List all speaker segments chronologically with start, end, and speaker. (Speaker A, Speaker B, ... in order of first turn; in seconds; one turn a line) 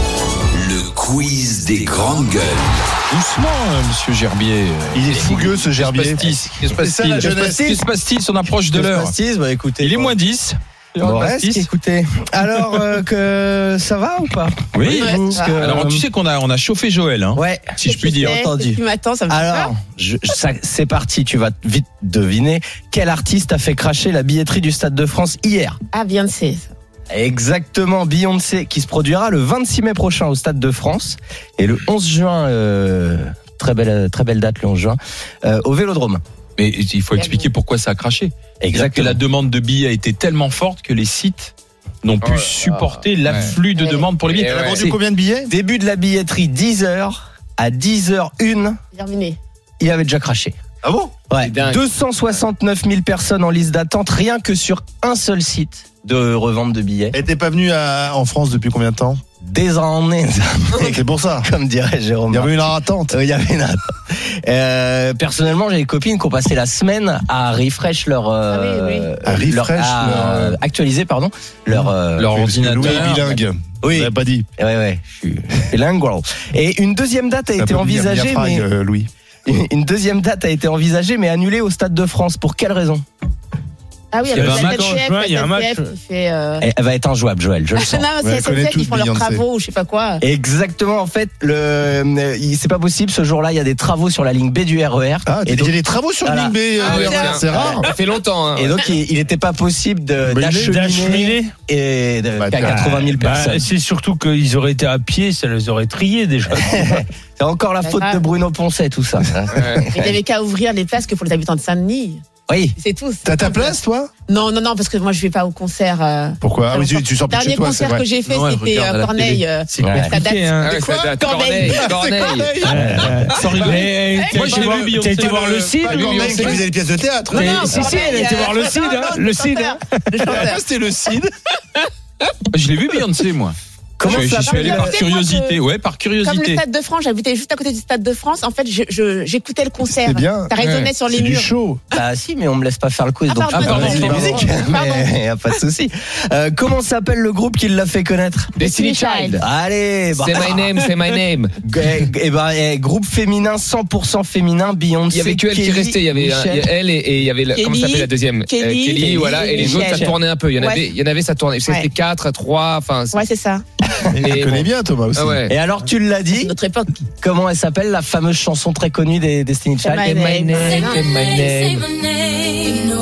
Speaker A: 0.5-2.9
Speaker B: 3.1-9.2
Speaker C: 4.9-7.8
Speaker D: 7.2-7.8
Speaker D: 8.7-10.2
Speaker B: 9.8-11.7
Speaker D: 11.0-16.1
Speaker B: 14.7-18.3
Speaker E: 14.9-15.6
Speaker D: 17.3-25.8
Speaker E: 17.8-19.7
Speaker E: 25.9-26.7
Speaker D: 27.1-36.2
Speaker B: 36.6-45.0
Speaker E: 37.1-37.5
Speaker D: 38.6-39.2
Speaker F: 42.2-43.6
Speaker E: 43.8-44.1
Speaker F: 44.2-44.8
Speaker C: 44.5-45.5
Speaker D: 45.5-48.8
Speaker E: 48.9-49.4
Speaker D: 49.8-50.6
Speaker C: 50.8-51.1
Speaker D: 51.3-57.2
Speaker F: 51.4-51.9
Speaker C: 57.1-59.2
Speaker D: 59.4-62.5
Speaker C: 60.8-61.5
Speaker C: 62.3-63.2
Speaker D: 63.1-72.3
Speaker E: 68.5-69.1
Speaker C: 69.2-70.6
Speaker B: 72.2-73.4
Speaker C: 72.3-74.5
Speaker D: 73.8-78.7
Speaker C: 77.6-79.1
Speaker D: 79.5-83.0
Speaker E: 84.1-86.7
Speaker G: 84.3-85.9
Speaker B: 84.3-84.8
Speaker D: 86.6-88.1
Speaker E: 87.8-90.2
Speaker C: 88.2-89.4
Speaker D: 90.2-96.6
Speaker C: 95.3-97.9
Speaker E: 96.8-97.8
Speaker F: 96.8-98.8
Speaker D: 97.3-97.8
Speaker D: 98.5-103.7
Speaker C: 100.2-101.3
Speaker G: 100.6-101.5
Speaker C: 102.4-102.9
Speaker G: 102.6-107.0
Speaker D: 106.6-109.9
Speaker E: 107.8-108.2
Speaker F: 109.5-109.9
Speaker E: 109.9-112.2
Speaker D: 112.5-112.8
Speaker E: 112.8-121.9
Speaker C: 113.2-114.1
Speaker C: 116.4-118.0
Speaker B: 118.3-119.4
Speaker G: 119.7-120.7
Speaker D: 119.8-120.2
Speaker F: 120.6-122.7
Speaker C: 120.7-121.1
Speaker C: 121.7-123.5
Speaker G: 122.6-126.6
Speaker D: 122.8-123.2
Speaker B: 123.5-126.2
Speaker E: 123.6-124.5
Speaker C: 125.8-128.0
Speaker F: 126.0-126.6
Speaker E: 127.3-130.6
Speaker G: 127.3-130.3
Speaker C: 130.3-131.2
Speaker B: 132.5-133.6
Speaker D: 134.0-135.0
Speaker E: 134.0-135.6
Speaker B: 134.1-136.6
Speaker E: 136.2-141.5
Speaker C: 139.9-140.5
Speaker F: 140.6-140.9
Speaker C: 141.1-141.8
Speaker D: 141.9-148.6
Speaker E: 143.3-145.1
Speaker C: 143.6-144.5
Speaker B: 143.6-144.2
Speaker F: 148.6-149.4
Speaker E: 148.6-149.4
Speaker D: 149.4-150.8
Speaker F: 150.1-151.6
Speaker D: 151.6-156.7
Speaker F: 155.1-163.2
Speaker E: 157.5-160.9
Speaker D: 159.5-160.2
Speaker E: 163.1-163.6
Speaker C: 164.0-165.4
Speaker F: 164.2-165.5
Speaker D: 165.5-166.5
Speaker E: 166.4-167.0
Speaker D: 167.2-170.3
Speaker E: 169.8-171.1
Speaker F: 170.2-171.9